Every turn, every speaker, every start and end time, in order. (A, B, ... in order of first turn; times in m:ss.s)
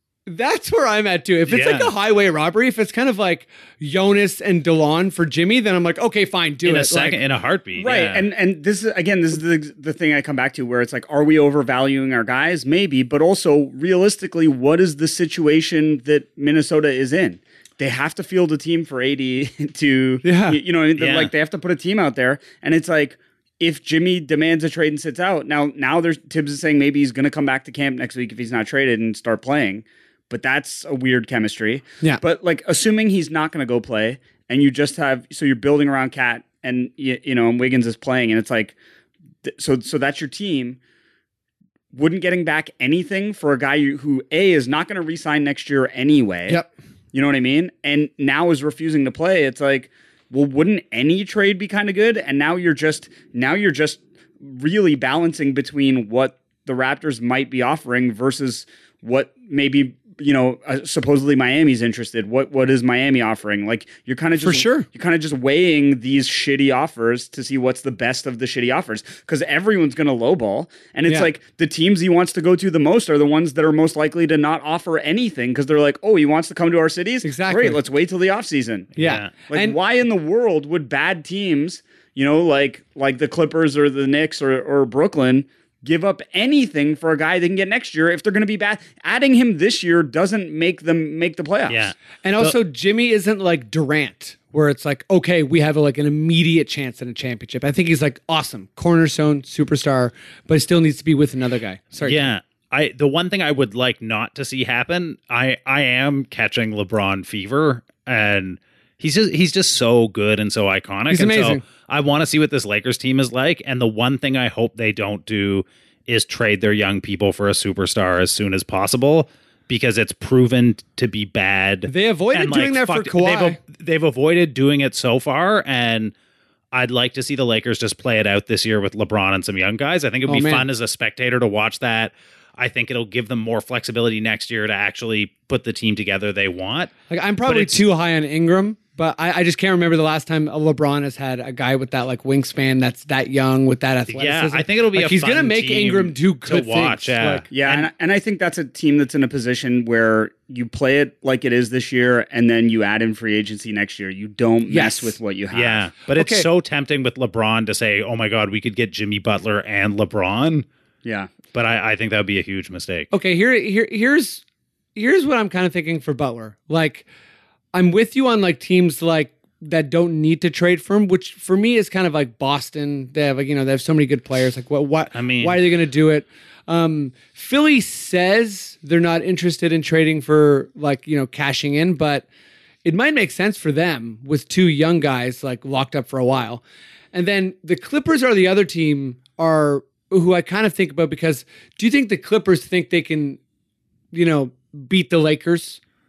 0:00.3-0:07.2 A
0:01.5-0:01.9 B
0:06.6-0:08.3 B
0:07.8-0:38.8 C
0:20.2-0:20.6 A
0:21.0-0:21.3 B
0:39.4-0:40.8 C
0:41.9-1:31.9 C
1:04.4-1:04.9 A
1:17.2-1:17.8 A
1:19.0-1:19.3 B
1:19.0-1:19.8 A
1:31.7-1:32.6 B
1:32.2-1:42.2 A
1:42.0-2:06.1 B
1:51.1-1:51.6 A
2:01.9-2:03.6 A
2:06.7-2:16.9 B
2:10.3-2:10.7 A
2:17.1-2:27.4 A
2:17.5-2:17.8 B
2:24.1-2:27.9 B
2:27.5-2:35.9 C
2:34.7-2:35.2 A
2:35.5-2:40.7 B
2:36.1-2:36.5 A
2:41.0-2:41.3 C
2:41.5-2:43.1 B
2:43.1-2:44.4 A
2:45.0-2:47.0 A
2:47.7-3:02.3 A
2:55.1-2:55.6 B
3:02.8-3:06.6 A
3:07.1-3:13.4 A
3:14.1-3:15.8 A